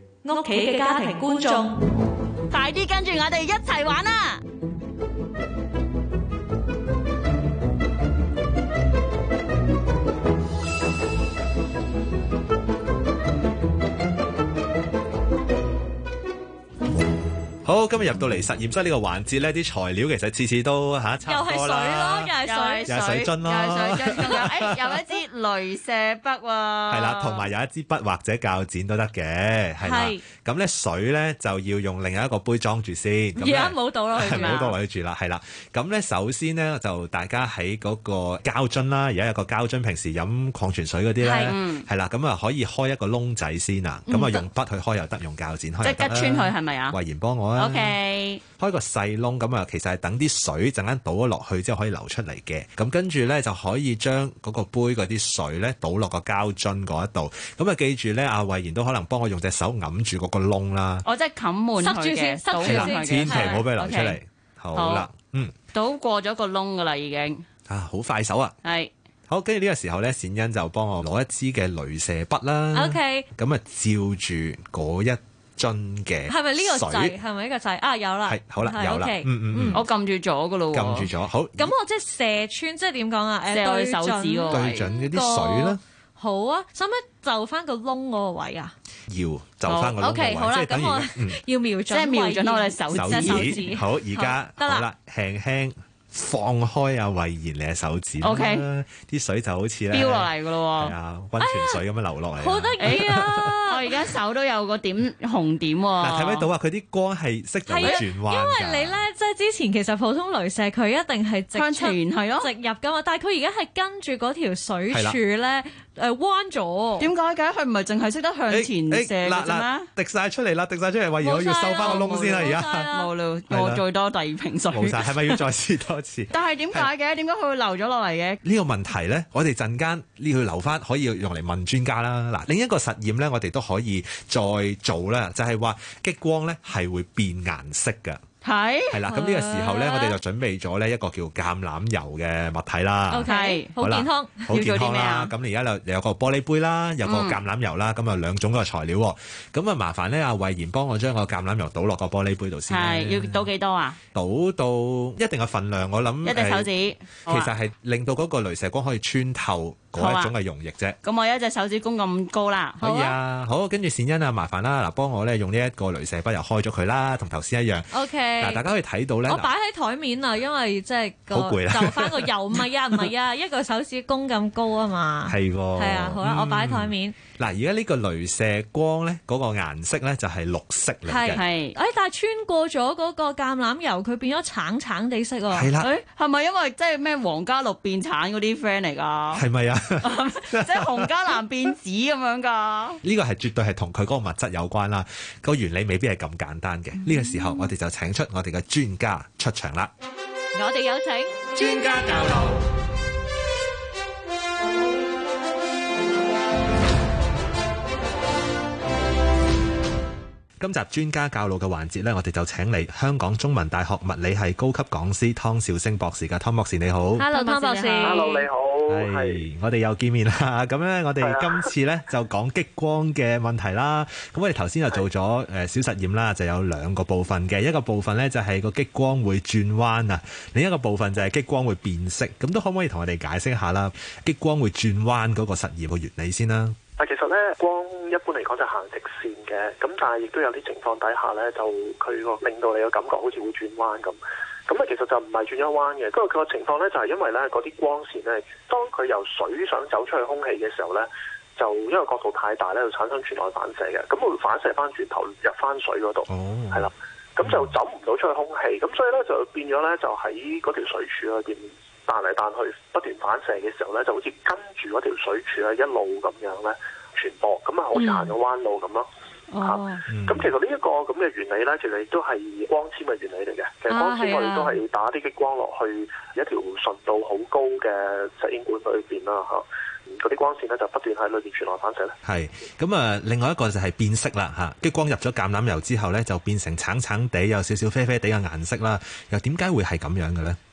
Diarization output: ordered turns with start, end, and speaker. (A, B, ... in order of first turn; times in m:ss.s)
0:00.2-0:01.8 A
0:02.5-0:04.4 B
0:17.6-0:22.3 C
0:21.2-0:23.0 A
0:22.5-0:27.5 B
0:22.9-0:25.0 C
0:26.9-0:48.0 C
0:29.8-0:30.2 A
0:33.4-0:34.7 A
0:34.2-0:34.8 B
0:41.2-0:41.6 A
0:41.4-0:41.9 B
0:44.1-0:44.4 A
0:45.8-0:47.0 B
0:47.6-0:48.4 B
0:48.6-1:01.1 C
1:01.0-1:04.2 B
1:01.8-1:03.6 A
1:02.6-1:05.6 C
1:04.8-1:05.1 B
1:05.7-1:07.4 B
1:07.7-1:08.6 C
1:08.6-1:08.9 B
1:09.3-1:17.2 C
1:12.7-1:13.3 A
1:16.3-1:19.8 A
1:18.3-1:19.8 C
1:19.7-1:21.1 B
1:20.7-1:21.7 C
1:21.6-1:28.7 A
1:23.5-1:24.9 B
1:24.5-1:25.8 C
1:29.1-1:31.4 C
1:29.7-1:30.0 B
1:30.0-1:34.9 A
1:31.9-1:33.8 B
1:32.9-1:43.6 C
1:38.2-1:38.6 B
1:39.9-1:41.0 B
1:41.4-1:41.8 A
1:42.4-1:43.9 A
1:42.8-1:46.5 B
1:46.0-1:49.0 C
1:47.7-1:57.1 A
1:51.5-1:52.5 B
1:54.9-1:55.2 C
1:57.0-1:59.9 B
1:58.5-2:02.9 C
2:01.2-2:03.1 A
2:01.7-2:05.4 B
2:03.5-2:03.8 C
2:04.7-2:06.9 C
2:06.3-2:08.4 B
2:08.4-2:18.2 C
2:18.4-2:19.0 B
2:18.9-2:33.5 C
2:19.1-2:20.2 A
2:23.1-2:24.5 A
2:23.3-2:23.7 B
2:24.5-2:25.3 B
2:27.0-2:27.4 B
2:32.7-2:34.0 B
2:34.1-2:36.7 C
2:36.2-2:37.5 B
2:37.3-2:41.0 C
2:40.0-2:40.3 B
2:41.0-2:42.8 B
2:42.8-2:43.2 A
2:42.8-2:49.5 C
2:47.9-2:48.6 A
2:49.3-2:57.2 A
2:51.3-2:53.1 C
2:55.3-3:01.4 C
3:01.1-3:05.7 A
3:01.3-3:01.8 B
3:05.5-3:05.9 C
3:05.8-3:09.4 B
3:09.3-3:11.4 C
3:10.0-3:13.0 B
3:13.0-3:19.9 C
3:17.0-3:17.7 B
3:20.6-3:21.8 A
3:21.6-3:22.6 C
3:30.6-3:37.2 C
3:37.2-3:38.4 A
3:37.3-3:38.4 B
3:38.0-3:39.4 D
3:38.9-3:56.8 C
3:41.2-3:41.7 D
3:57.0-4:29.1 D
4:16.3-4:16.9 C
4:17.4-4:17.7 C
4:28.0-4:28.3 A
4:29.5-4:30.0 A
4:29.6-4:42.2 D
4:30.1-4:30.5 C
4:33.9-4:34.8 A
4:42.2-4:50.6 C